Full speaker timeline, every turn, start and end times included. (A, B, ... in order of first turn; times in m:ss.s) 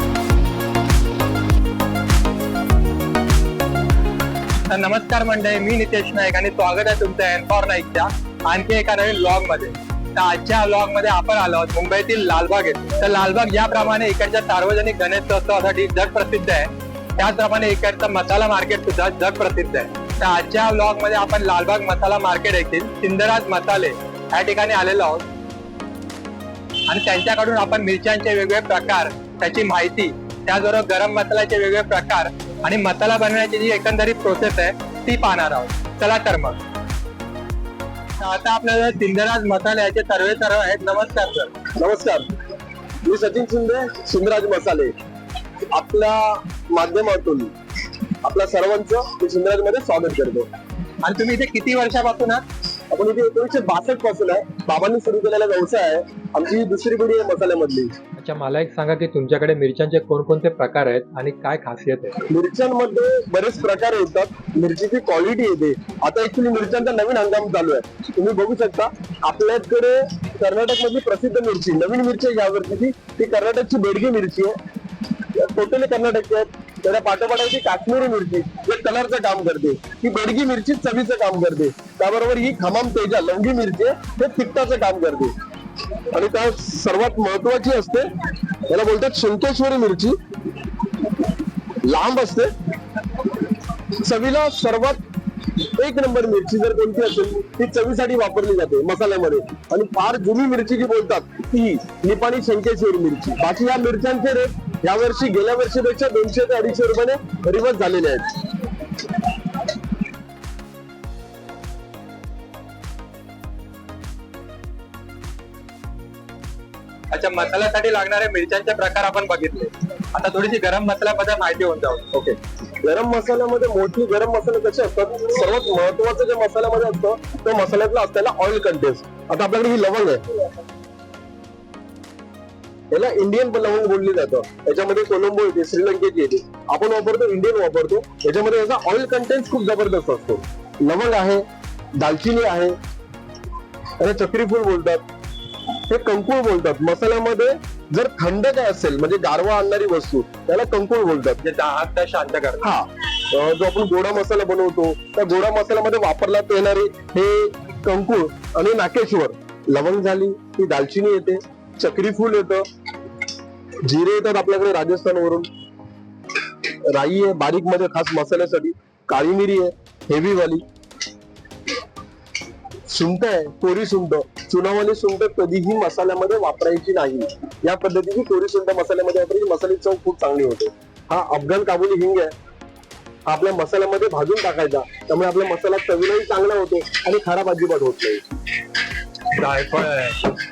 0:04.7-0:25.2 A
0:26.9-0:36.6 A
0:38.2-0:41.5 A
0:41.8-0:42.3 B
0:43.0-0:44.9 B
0:45.7-0:47.5 B
0:48.2-0:50.5 B
0:51.0-0:52.4 A
0:52.9-0:57.9 B
0:58.2-1:02.2 C
1:02.3-1:14.6 B
1:15.2-1:25.3 B
1:26.1-1:28.1 B
1:28.7-1:30.2 B
1:31.8-1:32.5 B
1:34.0-1:35.0 B
1:35.6-1:48.4 B
1:57.1-2:02.1 A
2:02.1-2:10.2 B
2:12.9-2:21.4 B
2:22.0-2:22.7 B
2:24.0-2:25.0 B
2:25.9-2:31.4 B
2:31.4-2:32.7 A
2:32.6-2:42.6 B
2:43.8-2:45.5 B
2:46.9-2:50.6 B
2:52.9-3:02.3 B
3:03.3-3:08.2 B
3:09.3-3:10.2 A